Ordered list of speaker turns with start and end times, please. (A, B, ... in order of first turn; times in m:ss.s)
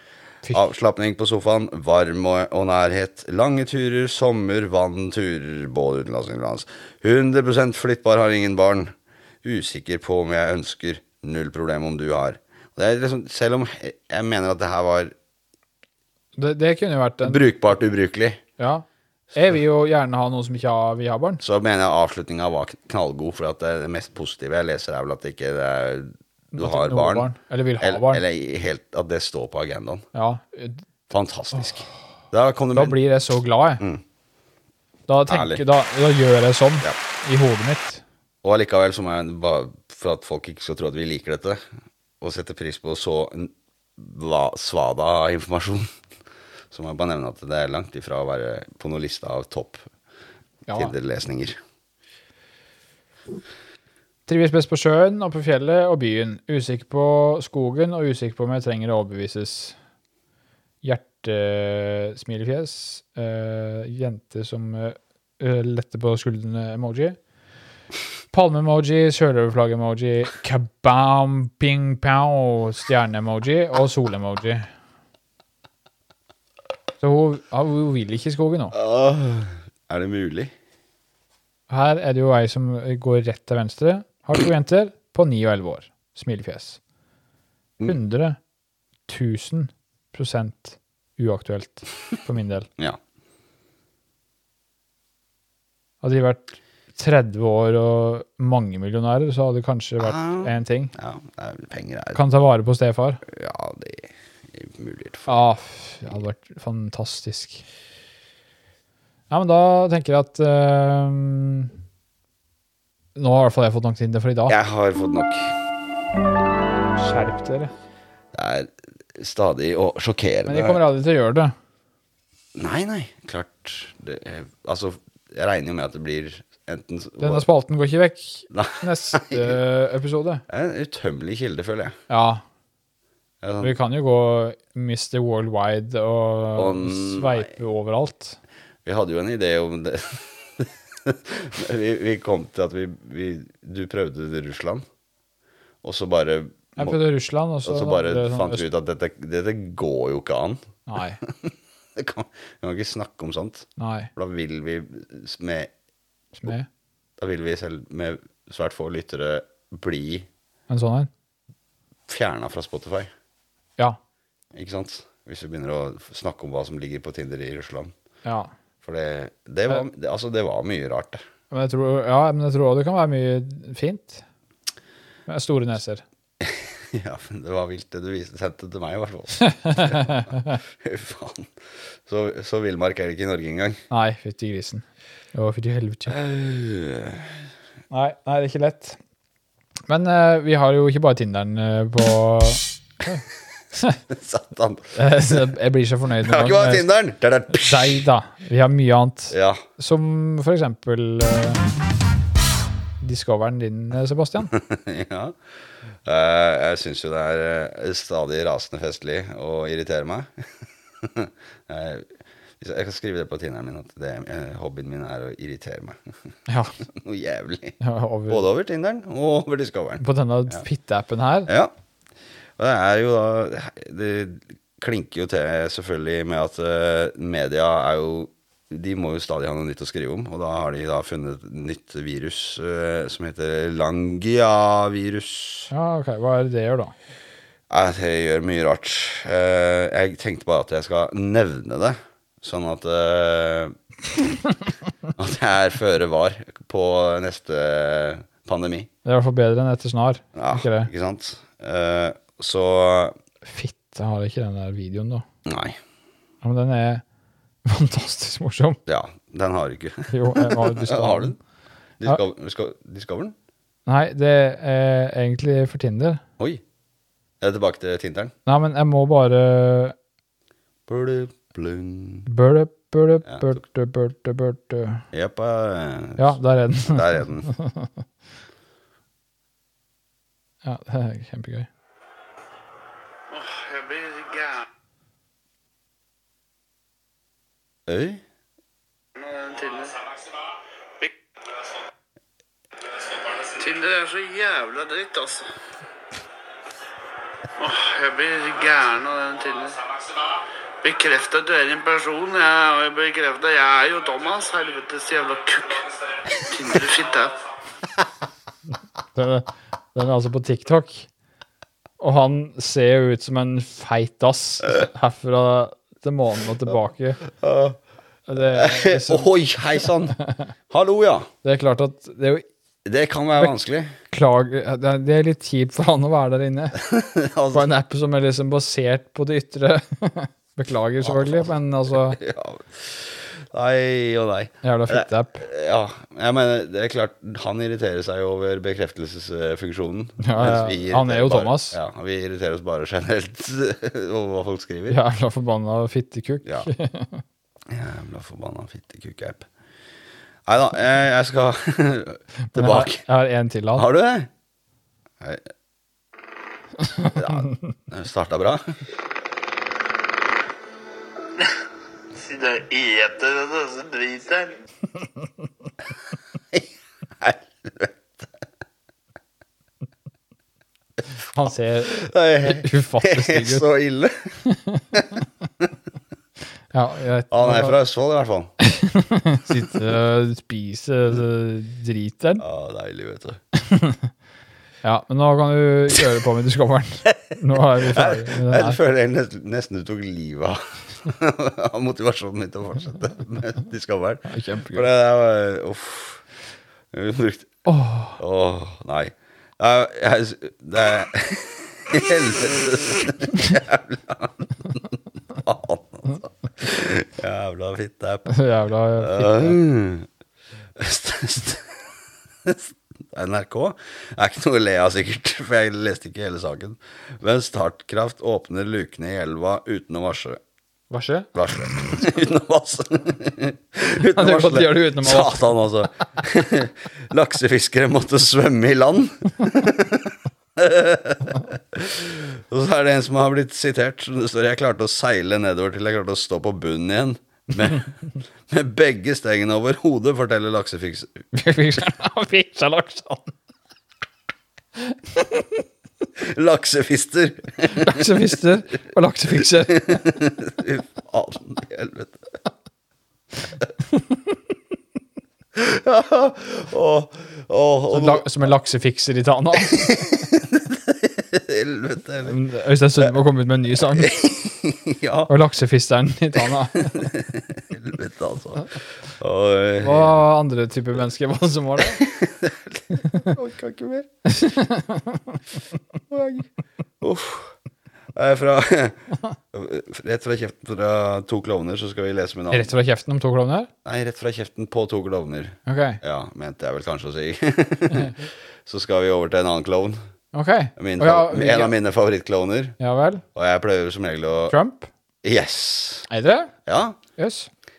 0:00.5-0:08.9 A
0:09.4-0:15.1 A
0:16.4-0:17.4 B
0:17.2-0:18.4 A
0:18.6-0:21.4 B
0:21.4-0:30.0 A
0:26.5-0:28.2 B
0:30.1-0:30.8 B
0:31.1-0:33.0 A
0:32.7-0:33.8 B
0:35.1-0:38.0 B
0:35.3-0:35.6 A
0:38.4-0:41.6 A
0:42.2-0:45.9 A
0:46.7-0:49.8 A
0:50.7-0:50.9 B
0:50.7-0:51.6 A
0:54.3-0:59.8 B
1:00.8-1:07.2 B
1:08.3-1:14.7 B
1:17.0-1:18.7 B
1:18.7-1:20.5 A
1:21.7-1:26.8 B
1:27.8-1:28.4 B
1:29.1-1:32.7 B
1:36.0-1:40.9 B
1:40.0-1:42.2 A
1:42.1-1:43.2 B
1:43.2-1:45.4 A
1:45.3-1:47.6 B
1:49.3-1:51.7 B
1:53.2-1:54.5 B
1:54.5-1:55.6 A
1:57.0-1:57.7 B
1:58.3-2:00.8 A
2:00.4-2:01.5 B
2:02.6-2:07.4 A
2:07.2-2:10.4 B
2:08.5-2:09.6 A
2:10.5-2:12.0 A
2:12.1-2:12.4 B
2:13.4-2:13.7 A
2:13.6-2:18.4 B
2:16.6-2:17.5 A
2:18.8-2:24.8 A
2:25.8-2:27.0 A
2:26.8-2:28.6 B
2:27.6-2:35.7 A
2:30.9-2:31.2 B
2:33.8-2:34.1 B
2:36.3-2:36.7 B
2:37.2-2:40.3 A
2:40.7-2:41.1 B
2:42.1-2:43.1 A
2:44.5-2:47.9 A
2:48.2-2:48.5 B
2:48.8-2:51.2 A
2:51.5-2:54.2 B
2:55.3-2:56.0 B
2:56.4-3:01.5 A
2:59.4-3:00.6 B
3:02.1-3:03.8 A
3:03.9-3:06.2 B
3:06.1-3:07.4 A
3:07.9-3:09.0 B
3:09.9-3:13.2 B
3:14.0-3:15.4 A
3:15.0-3:16.8 B
3:16.2-3:18.0 A
3:17.5-3:21.6 B
3:19.3-3:19.6 A
3:23.0-3:24.5 B
3:24.5-3:25.3 A
3:26.0-3:30.3 A
3:31.0-3:32.1 A
3:32.6-3:36.0 A
3:36.5-3:36.8 B
3:36.9-3:37.8 A
3:37.8-3:38.4 B
3:38.3-3:40.6 A
3:40.0-3:41.5 B
3:41.5-3:41.7 A
3:42.6-3:55.7 A
3:55.7-3:56.9 B
3:57.7-4:03.8 A
4:05.2-4:08.9 A
4:09.0-4:10.9 B
4:10.3-4:13.2 A
4:13.4-4:15.2 B
4:15.4-4:15.8 A
4:16.4-4:17.0 B
4:17.6-4:18.8 B
4:18.8-4:21.4 A
4:20.1-4:21.4 B
4:22.0-4:23.3 A
4:23.8-4:26.2 B
4:27.4-4:28.3 A
4:28.4-4:29.9 B
4:30.9-4:32.3 A
4:32.3-4:35.0 B
4:33.2-4:33.6 A
4:35.1-4:37.5 A
4:36.2-4:38.0 B
4:40.6-4:41.7 B
4:43.3-4:44.7 C
4:47.9-4:48.2 A
4:49.2-4:50.4 C
4:52.9-4:55.5 C
4:57.6-5:07.4 C
5:09.1-5:11.1 B
5:12.0-5:17.2 B
5:17.3-5:17.8 A
5:18.3-5:20.5 B
5:18.4-5:21.3 A
5:21.4-5:22.4 B
5:22.8-5:23.9 A
5:24.1-5:26.8 B
5:26.8-5:27.6 A
5:27.5-5:32.2 B
5:31.0-5:31.5 A
5:32.1-5:45.0 A
5:34.6-5:35.4 B
5:40.2-5:41.8 B
5:44.9-5:47.2 B
5:46.4-5:46.7 A
5:47.7-5:49.5 A
5:50.5-5:53.0 A
5:52.5-5:53.8 B
5:53.7-5:54.3 A
5:56.9-5:57.4 B
5:57.0-5:58.8 A
6:02.1-6:04.6 C
6:07.2-6:08.0 A
6:11.3-6:13.6 B
6:11.8-6:14.4 A
6:14.4-6:15.0 B
6:14.9-6:15.2 A
6:16.7-6:17.8 B
6:17.3-6:18.5 A
6:18.6-6:22.4 B
6:22.4-6:23.4 A
6:23.5-6:24.1 B
6:24.8-6:28.8 B
6:27.7-6:36.2 A
6:34.3-6:34.9 B
6:36.9-6:37.5 A
6:37.6-6:38.2 B
6:38.2-6:48.3 A
6:48.3-6:49.6 B
6:49.0-6:50.1 A
6:50.8-6:51.8 A
6:52.4-7:00.4 A
7:00.9-7:01.3 B
7:01.3-7:17.9 A
7:04.0-7:05.5 B
7:18.5-7:21.2 A
7:21.3-7:23.3 B
7:24.9-7:25.5 B
7:26.2-7:28.2 A
7:27.7-7:30.1 B
7:29.7-7:32.2 A
7:35.6-7:38.3 A
7:37.9-7:40.0 B
7:39.8-7:42.4 A
7:42.2-7:44.2 B
7:43.9-7:45.3 A
7:45.3-7:47.1 B
7:46.8-7:50.2 A
7:49.8-7:52.0 B
7:52.0-7:54.1 A
7:54.2-7:55.4 B
7:56.1-7:56.4 A
7:57.0-7:57.6 A
7:58.1-8:02.7 A
8:02.5-8:03.7 B
8:03.8-8:10.0 A
8:05.6-8:06.0 B
8:10.3-8:11.7 B
8:10.8-8:12.8 A
8:12.8-8:13.2 B
8:13.3-8:14.6 A
8:14.5-8:14.9 B
8:15.2-8:16.1 A
8:16.1-8:16.5 B
8:16.6-8:17.0 A
8:17.2-8:17.5 B